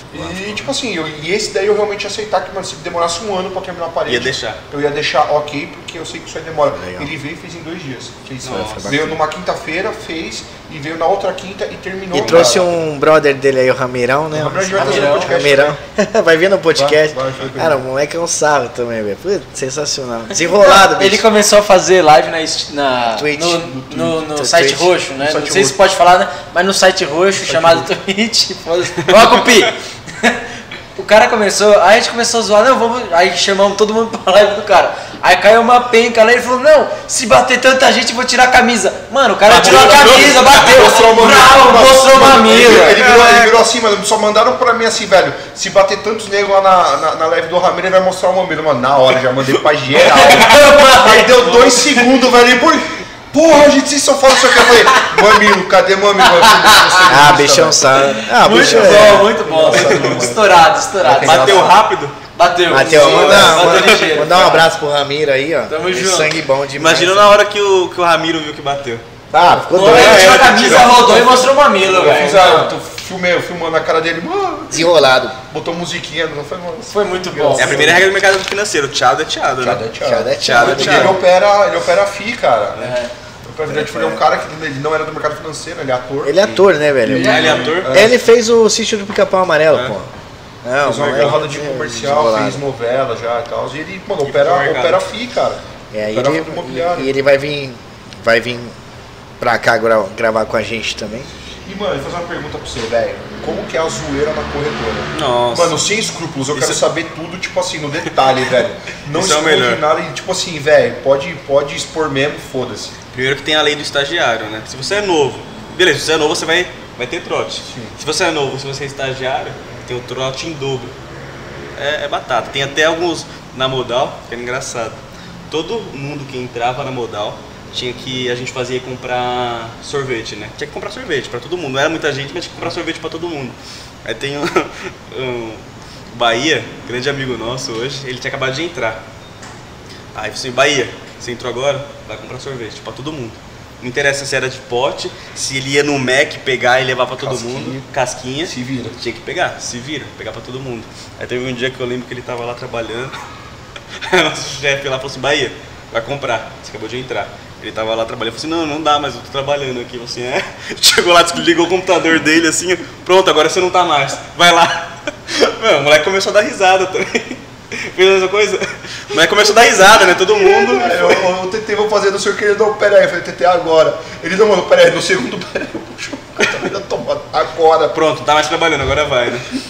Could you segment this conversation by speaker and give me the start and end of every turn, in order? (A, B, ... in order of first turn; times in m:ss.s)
0:00.1-0:12.7 A
0:00.3-0:00.6 B
0:04.1-0:04.6 B
0:06.7-0:07.1 C
0:08.4-0:08.9 B
0:08.4-0:09.2 C
0:12.1-0:21.3 C
0:12.2-0:12.6 B
0:14.3-0:15.8 A
0:14.7-0:15.3 D
0:16.7-0:17.8 A
0:20.3-0:30.4 D
0:23.1-0:23.7 C
0:23.6-0:24.3 A
0:24.3-0:24.9 C
0:25.2-0:25.8 A
0:27.4-0:27.9 A
0:29.1-0:29.6 B
0:30.9-0:43.0 D
0:39.4-0:40.6 B
0:39.5-1:01.8 A
0:42.9-0:43.5 B
0:49.9-0:52.1 D
0:54.6-0:55.2 D
0:56.4-0:57.2 D
0:57.0-0:59.3 C
0:58.2-1:01.7 D
0:59.7-1:00.2 B
1:01.2-1:02.2 B
1:02.3-1:04.7 D
1:02.7-1:07.4 C
1:02.8-1:03.6 A
1:03.0-1:04.3 B
1:05.7-1:06.4 D
1:06.8-1:09.0 B
1:09.3-1:10.5 C
1:09.7-1:12.7 D
1:09.8-1:11.4 B
1:11.8-1:18.1 A
1:12.0-1:12.3 B
1:14.7-1:15.4 C
1:16.9-1:18.0 D
1:17.6-1:19.8 B
1:19.6-1:22.9 A
1:20.0-1:21.2 C
1:20.4-1:21.2 B
1:20.6-1:21.1 D
1:22.8-1:23.1 D
1:23.4-1:26.4 A
1:23.7-1:24.2 C
1:26.2-1:30.1 C
1:26.4-1:28.1 B
1:27.0-1:28.2 A
1:27.1-1:27.8 D
1:30.6-1:32.6 C
1:30.8-1:37.1 A
1:34.2-1:35.0 B
1:35.9-1:38.7 C
1:39.4-1:41.3 C
1:41.6-1:52.9 A
1:45.1-1:45.8 B
1:46.5-1:46.8 B
1:49.1-1:49.8 B
1:53.1-2:00.9 B
1:57.6-1:57.9 A
2:01.8-2:05.0 B
2:05.5-2:15.6 B
2:16.1-2:19.0 B
2:20.1-2:33.1 B
2:27.2-2:27.8 A
2:28.4-2:29.0 A
2:34.0-2:51.3 B
2:49.9-2:58.0 A
2:57.9-2:59.5 B